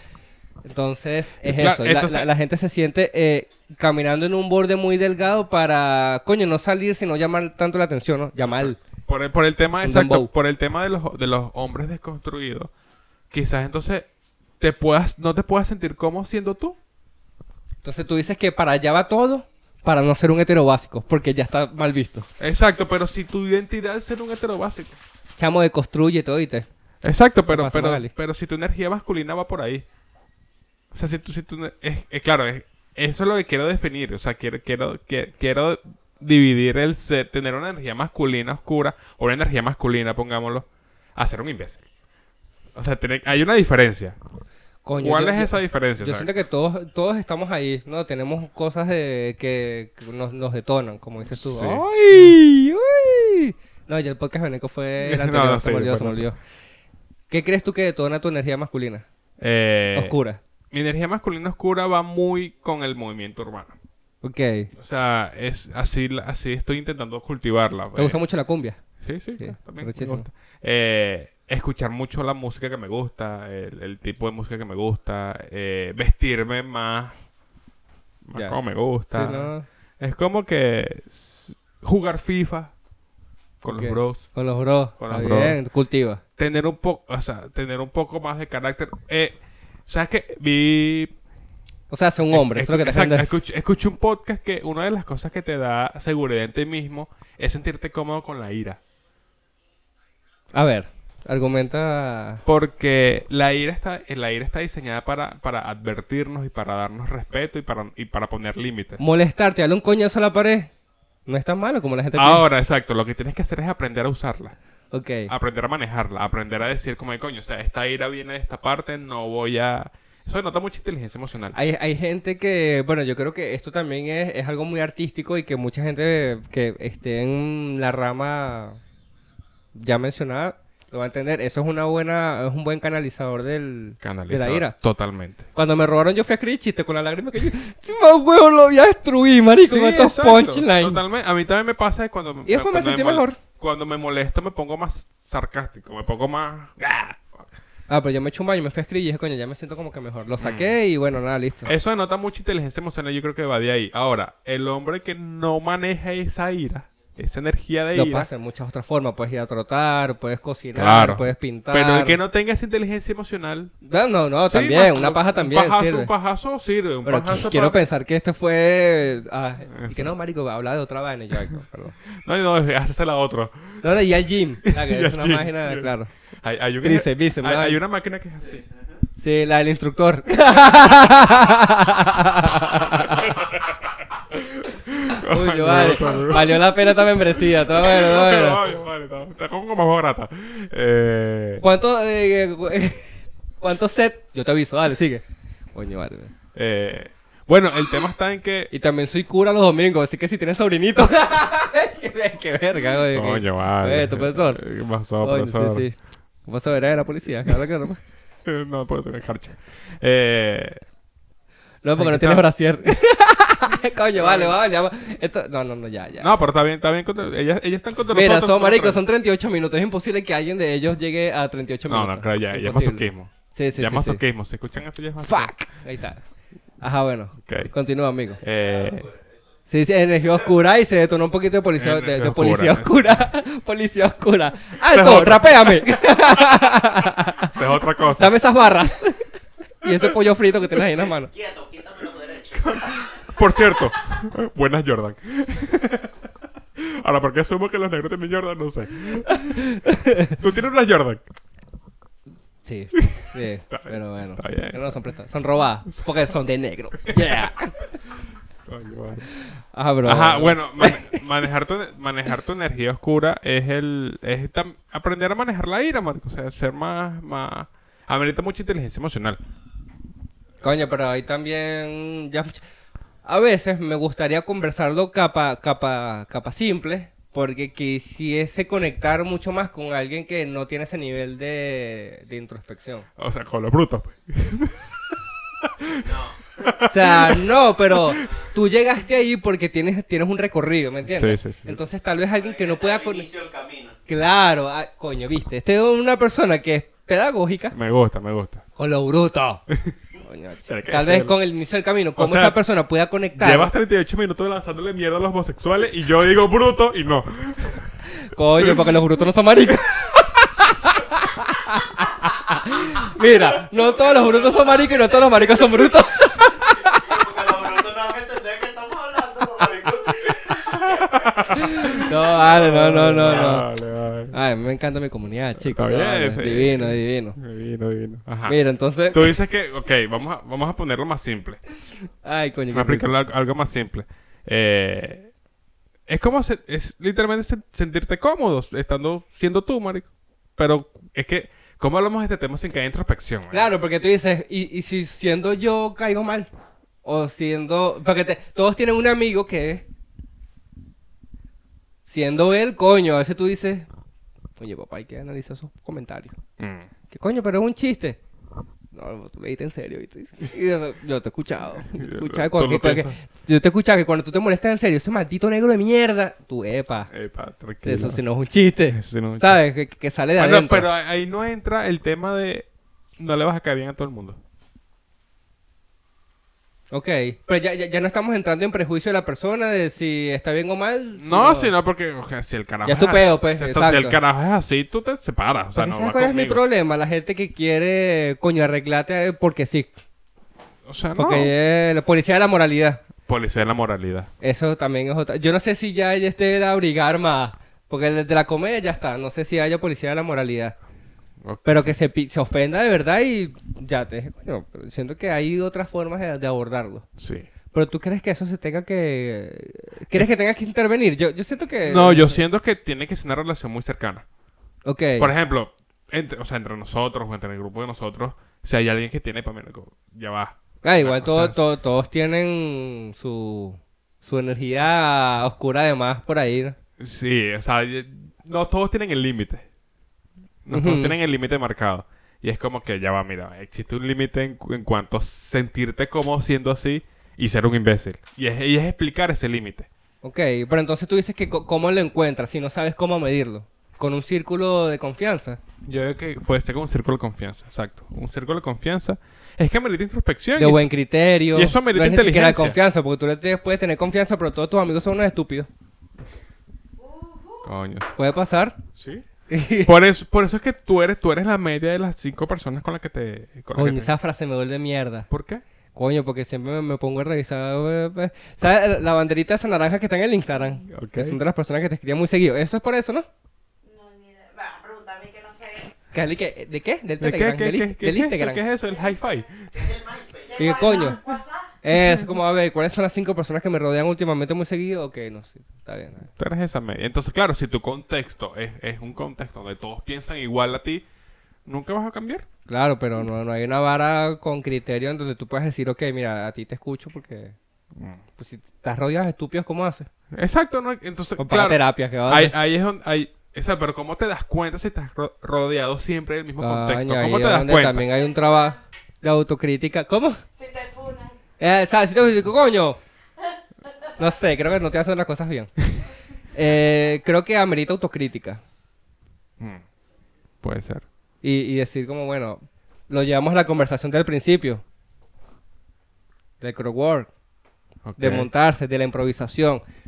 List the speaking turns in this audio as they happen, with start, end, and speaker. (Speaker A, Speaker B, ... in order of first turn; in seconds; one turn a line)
Speaker A: 0.6-8.8
Speaker B: 1.4-2.3
Speaker B: 8.4-12.7
Speaker A: 9.8-10.3
Speaker B: 13.3-14.1
Speaker B: 14.6-16.8
Speaker A: 17.8-22.3
Speaker B: 22.4-25.0
Speaker A: 25.4-26.7
Speaker B: 27.0-29.8
Speaker A: 27.5-28.1
Speaker B: 30.9-41.8
Speaker B: 42.8-44.2
Speaker A: 44.8-56.4
Speaker B: 45.0-46.3
Speaker B: 51.3-52.3
Speaker B: 55.0-56.3
Speaker A: 57.3-59.0
Speaker B: 59.4-60.1
Speaker A: 60.0-60.4
Speaker B: 60.7-63.7
Speaker A: 64.2-64.7
Speaker B: 64.7-68.2
Speaker A: 68.0-68.8
Speaker B: 69.0-77.1
Speaker A: 69.4-70.2
Speaker B: 78.2-82.7
Speaker A: 79.1-79.7
Speaker B: 83.6-84.3
Speaker A: 83.7-86.2
Speaker B: 85.0-85.6
Speaker B: 86.4-91.1
Speaker A: 91.9-93.3
Speaker B: 92.3-98.8
Speaker A: 100.5-102.4
Speaker B: 102.4-109.0
Speaker A: 109.0-110.7
Speaker A: 111.2-112.4
Speaker B: 112.1-114.5
Speaker A: 114.9-115.3
Speaker B: 115.3-121.6
Speaker A: 121.5-128.8
Speaker A: 129.7-134.7
Speaker B: 134.0-135.5
Speaker A: 135.5-141.0
Speaker B: 139.6-147.5
Speaker A: 142.4-143.4
Speaker A: 147.9-151.7
Speaker B: 150.4-150.8
Speaker B: 151.7-158.3
Speaker A: 157.9-162.2
Speaker B: 160.7-163.7
Speaker A: 163.8-166.1
Speaker B: 164.5-167.8
Speaker A: 167.0-171.9
Speaker B: 169.7-170.1
Speaker B: 172.2-173.8
Speaker A: 173.8-176.1
Speaker B: 174.6-178.6
Speaker A: 176.8-177.8
Speaker C: 178.4-178.8
Speaker A: 179.2-183.3
Speaker B: 183.1-183.8
Speaker B: 184.3-191.6
Speaker A: 185.1-188.6
Speaker A: 191.6-193.1
Speaker A: 193.6-196.3
Speaker B: 196.5-198.7
Speaker A: 198.7-204.6
Speaker B: 203.1-205.8
Speaker A: 205.2-208.0
Speaker B: 208.4-210.8
Speaker A: 211.8-216.3
Speaker B: 212.0-212.4
Speaker B: 214.2-214.6
Speaker B: 216.2-219.0
Speaker A: 218.1-224.2
Speaker B: 221.9-225.6
Speaker A: 225.2-226.2
Speaker A: 226.8-228.4
Speaker B: 227.4-227.7
Speaker C: 228.4-229.5
Speaker B: 228.4-229.1
Speaker A: 229.7-237.6
Speaker B: 231.8-233.3
Speaker B: 234.8-236.6
Speaker B: 237.4-238.4
Speaker A: 238.2-241.3
Speaker C: 241.1-243.4
Speaker B: 242.6-246.1
Speaker B: 246.8-249.7
Speaker A: 249.8-250.1
Speaker B: 250.3-251.3
Speaker A: 252.6-257.9
Speaker B: 252.9-255.0
Speaker B: 257.1-257.5
Speaker B: 258.6-259.3
Speaker A: 259.7-261.1
Speaker B: 260.0-269.4
Speaker A: 270.6-272.6
Speaker A: 273.2-283.1
Speaker B: 283.2-286.0
Speaker C: 286.0-286.8
Speaker B: 286.6-288.0
Speaker A: 286.9-293.3
Speaker C: 288.1-288.5
Speaker B: 291.2-291.8
Speaker C: 292.3-294.0
Speaker A: 294.1-297.7
Speaker B: 297.7-298.6
Speaker A: 298.8-299.6
Speaker A: 300.2-303.7
Speaker B: 300.6-301.4
Speaker B: 302.2-302.6
Speaker B: 303.4-309.2
Speaker A: 308.3-316.8
Speaker C: 314.0-315.1
Speaker C: 316.7-322.0
Speaker B: 320.4-324.4
Speaker A: 321.7-323.6
Speaker A: 324.3-327.4
Speaker B: 325.6-328.6
Speaker A: 328.5-329.3
Speaker B: 329.1-331.6
Speaker A: 332.2-333.1
Speaker B: 332.7-335.3
Speaker B: 336.1-343.7
Speaker A: 343.5-346.5
Speaker A: 347.0-349.8
Speaker A: 352.1-353.9
Speaker A: 354.6-356.4
Speaker B: 356.6-356.9
Speaker A: 357.1-358.2
Speaker A: 358.9-367.1
Speaker B: 361.9-363.1
Speaker B: 367.1-368.2
Speaker A: 367.8-370.9
Speaker B: 368.9-369.6
Speaker B: 370.4-372.7
Speaker B: 373.2-374.4
Speaker A: 376.9-381.7
Speaker B: 381.2-386.6
Speaker A: 382.9-384.2
Speaker A: 385.8-389.9
Speaker B: 390.9-391.5
Speaker A: 391.2-393.0
Speaker B: 393.2-394.3
Speaker A: 394.4-400.8
Speaker B: 401.4-401.9
Speaker A: 401.6-407.1
Speaker B: 407.2-407.5
Speaker A: 407.7-412.4
Speaker B: 411.9-414.2
Speaker A: 414.8-415.3
Speaker B: 415.2-421.6
Speaker A: 420.8-426.8
Speaker B: 427.0-429.6
Speaker B: 430.6-439.9
Speaker A: 430.7-431.1
Speaker A: 440.2-445.6
Speaker B: 445.9-450.9
Speaker A: 450.6-455.7
Speaker B: 451.5-452.8
Speaker D: 457.0-457.6
Speaker B: 457.6-458.1
Speaker A: 458.1-458.8
Speaker B: 459.0-459.2
Speaker A: 459.5-459.9
Speaker B: 459.8-464.1
Speaker A: 463.7-465.3
Speaker B: 465.3-465.6
Speaker A: 465.9-473.2
Speaker B: 470.9-471.4
Speaker D: 473.8-475.9
Speaker A: 476.1-478.6
Speaker B: 477.2-479.9
Speaker D: 478.9-479.4
Speaker C: 479.7-481.1
Speaker D: 480.5-481.7
Speaker A: 480.6-481.2
Speaker A: 481.8-486.3
Speaker B: 481.9-482.3
Speaker B: 486.4-491.0
Speaker B: 491.6-492.4
Speaker A: 492.7-497.6
Speaker B: 497.9-498.2
Speaker A: 498.4-500.1
Speaker B: 500.3-508.1
Speaker A: 501.4-502.5
Speaker A: 506.6-510.4
Speaker D: 508.1-508.8
Speaker D: 510.6-511.4
Speaker A: 511.6-513.0
Speaker D: 513.9-514.2
Speaker A: 514.2-515.8
Speaker A: 516.5-518.6
Speaker B: 520.6-521.0
Speaker A: 521.4-524.8
Speaker A: 526.6-527.3
Speaker B: 528.0-528.5
Speaker A: 528.2-529.8